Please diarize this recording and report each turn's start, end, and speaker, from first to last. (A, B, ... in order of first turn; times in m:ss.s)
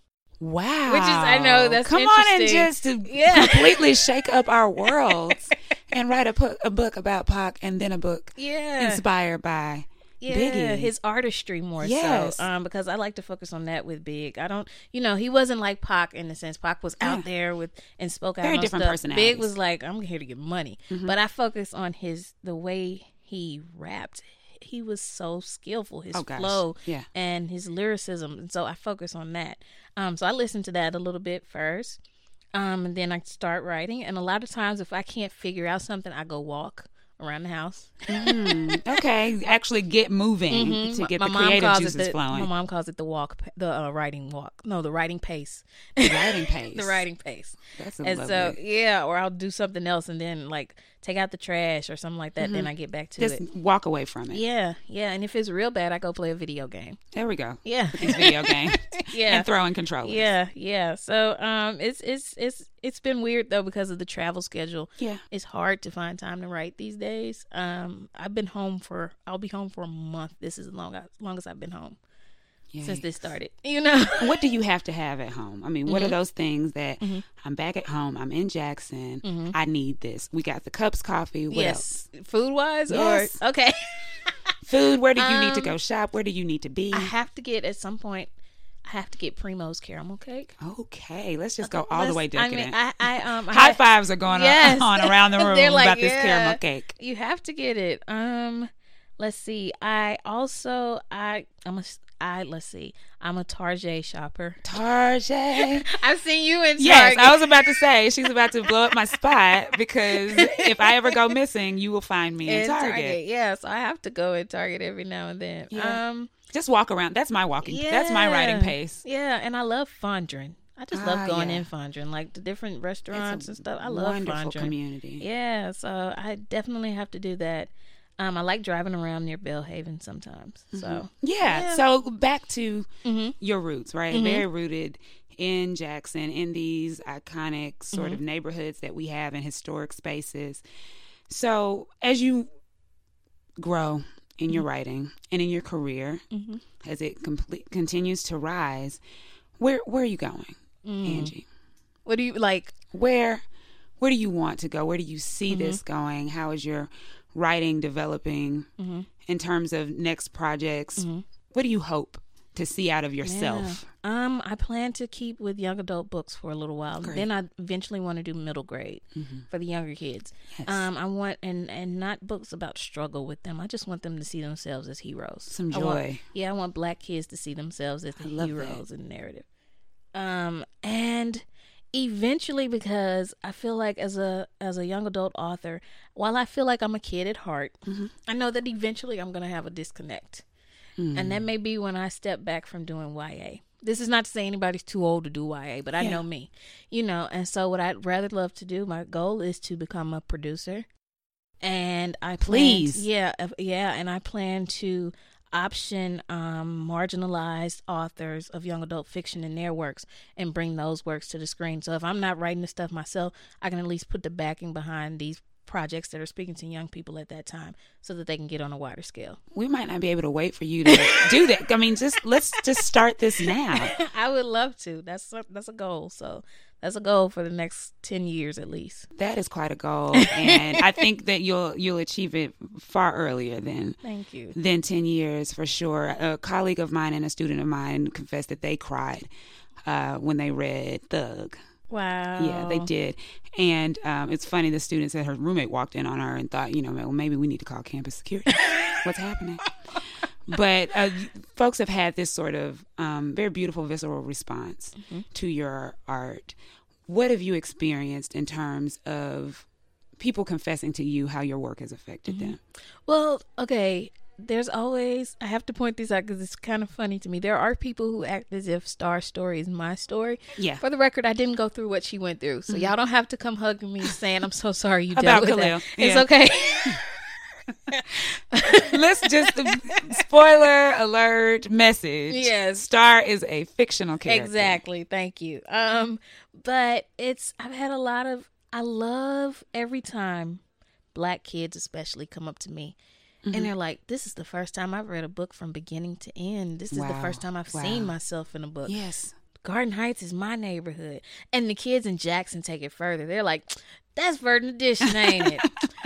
0:00.4-0:10.9 A
0:00.9-0:03.9 B
0:05.1-0:05.4 B
0:08.4-0:09.0 B
0:10.2-0:32.0 B
0:11.8-0:12.5 A
0:17.0-0:17.2 A
0:18.4-0:19.5 A
0:20.9-0:21.2 A
0:26.1-0:27.1 A
0:32.5-0:38.9 B
0:38.1-0:42.5 A
0:40.5-0:53.4 B
0:46.0-0:47.1 A
0:47.8-0:48.6 A
0:52.4-0:54.4 A
0:54.3-0:57.0 B
0:57.1-1:00.3 A
0:57.6-0:59.5 B
1:00.0-1:12.0 B
1:12.7-1:13.1 A
1:12.8-1:14.4 B
1:14.2-1:21.9 A
1:15.9-1:16.2 B
1:19.2-1:19.5 B
1:21.5-1:24.4 B
1:22.9-1:23.4 A
1:24.6-1:27.1 A
1:25.2-1:25.7 B
1:26.9-1:28.3 B
1:28.8-1:30.5 B
1:30.6-1:36.9 A
1:31.6-1:44.6 B
1:44.6-1:45.9 A
1:45.6-1:47.5 B
1:46.8-1:53.2 A
1:50.1-1:51.2 B
1:52.4-1:56.3 B
1:55.7-1:59.0 A
1:57.6-2:11.8 B
2:00.9-2:01.7 A
2:03.1-2:05.2 A
2:10.7-2:20.6 A
2:13.0-2:13.4 B
2:14.1-2:14.4 B
2:17.9-2:18.2 B
2:21.3-2:22.5 A
2:23.6-2:26.2 A
2:26.3-2:26.6 B
2:26.8-2:29.0 A
2:29.6-2:31.4 A
2:30.8-2:31.3 B
2:32.0-2:32.7 B
2:32.9-2:33.4 A
2:34.0-2:38.7 A
2:35.5-2:35.8 B
2:38.8-2:39.1 B
2:39.2-2:43.8 A
2:41.0-2:41.2 B
2:43.2-2:59.4 B
2:47.0-2:47.3 A
2:49.1-2:49.4 A
2:50.5-2:50.8 A
2:55.5-2:56.2 A
2:58.2-2:58.8 A
3:00.1-3:10.4 B
3:07.8-3:08.1 A
3:11.0-3:11.4 A
3:11.1-3:20.8 B
3:16.0-3:16.2 A
3:21.6-3:39.4 B
3:22.4-3:23.1 A
3:39.5-3:44.0 A
3:40.9-3:41.3 B
3:43.4-3:49.1 B
3:49.2-3:54.0 A
3:50.1-3:50.8 B
3:54.0-3:54.6 B
3:54.5-3:59.3 A
3:59.8-4:01.6 A
4:01.9-4:02.9 B
4:02.4-4:09.6 A
4:08.6-4:09.0 B
4:10.5-4:16.6 A
4:15.0-4:15.2 B
4:17.1-4:19.7 A
4:20.2-4:22.6 A
4:22.3-4:22.6 B
4:23.1-4:37.0 B
4:30.6-4:30.8 A
4:32.7-4:32.9 A
4:35.1-4:36.3 A
4:37.9-4:40.2 B
4:38.6-4:44.8 A
4:42.3-4:42.8 B
4:44.2-4:50.6 B
4:51.1-4:53.0 B
4:53.4-4:53.7 A
4:53.5-4:59.0 B
4:56.9-4:58.1 A
4:58.8-4:59.3 A
4:59.6-5:05.7 B
5:05.1-5:05.7 A